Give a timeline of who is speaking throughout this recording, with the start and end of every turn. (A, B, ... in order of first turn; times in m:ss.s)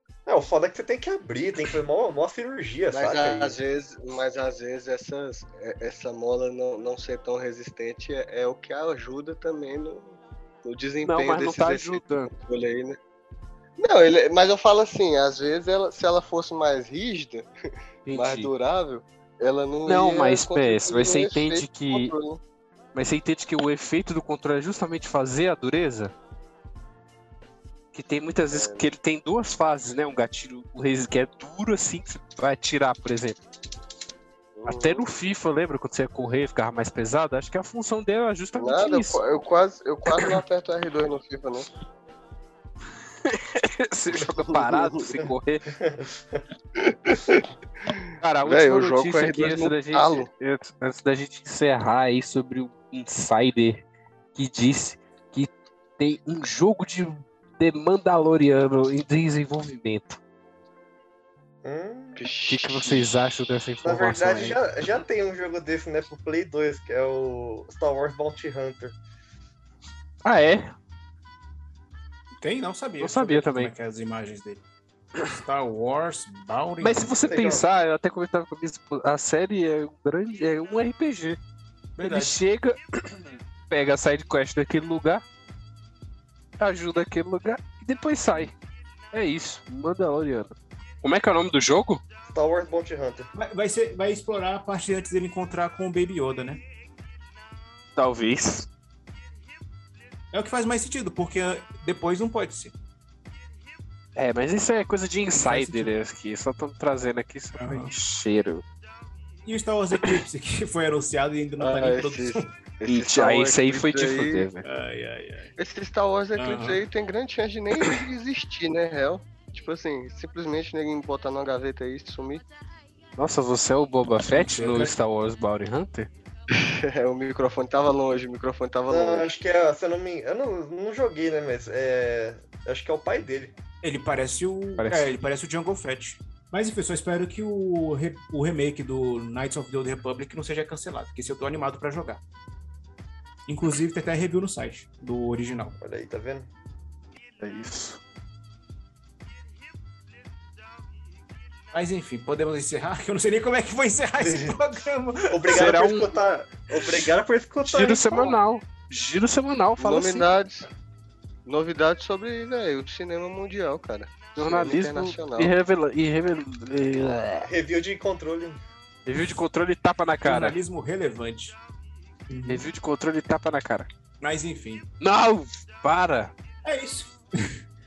0:00.3-0:03.6 A
0:02.9-0:13.0 B
0:11.0-0:12.3 C
0:13.8-0:17.5 B
0:18.0-0:18.5 C
0:18.1-0:22.4 B
0:19.8-0:22.1 C
0:22.9-0:26.1 C
0:27.9-0:33.4 C
0:28.5-0:28.9 B
0:34.6-0:35.0 B
0:34.7-0:39.2 C
0:38.6-0:41.7 B
0:43.2-0:45.7 C
0:44.1-0:45.2 B
0:45.8-0:46.1 A
0:46.8-0:50.3 B
0:48.2-1:00.2 C
1:01.6-1:02.2 A
1:02.2-1:03.1 B
1:02.5-1:04.6 C
1:03.8-1:09.0 A
1:10.2-1:10.7 C
1:12.4-1:14.6 D
1:13.0-1:13.7 C
1:15.2-1:17.2 D
1:16.8-1:21.4 C
1:17.2-1:17.6 A
1:22.0-1:22.3 D
1:22.0-1:25.2 C
1:26.6-1:28.5 C
1:29.1-1:32.0 C
1:32.3-1:33.3 A
1:33.3-1:36.6 D
1:38.0-1:38.7 C
1:40.3-1:42.7 D
1:44.1-1:48.6 C
1:45.3-1:45.9 D
1:47.6-1:47.9 D
1:49.4-1:52.5 D
1:51.6-1:54.5 B
1:52.8-1:54.6 C
1:54.6-1:55.5 D
1:55.6-2:02.4 B
1:56.4-1:56.8 D
2:03.2-2:06.1 C
2:04.2-2:04.9 D
2:06.5-2:09.3 B
2:08.9-2:13.5 A
2:13.8-2:22.2 D
2:14.8-2:15.1 C
2:23.5-2:25.8 D
2:25.8-2:26.5 A
2:27.4-2:28.0 C
2:31.7-2:35.7 D
2:34.2-2:34.6 A
2:35.3-2:38.4 A
2:35.5-2:36.1 C
2:37.6-2:40.3 C
2:39.8-2:40.7 B
2:41.4-2:45.5 B
2:44.4-2:47.5 C
2:47.4-2:48.6 A
2:49.0-2:50.6 C
2:50.2-2:51.6 D
2:52.3-2:52.6 D
2:52.5-2:53.9 C
2:54.2-2:54.9 D
2:55.0-2:56.3 C
2:56.6-2:57.2 D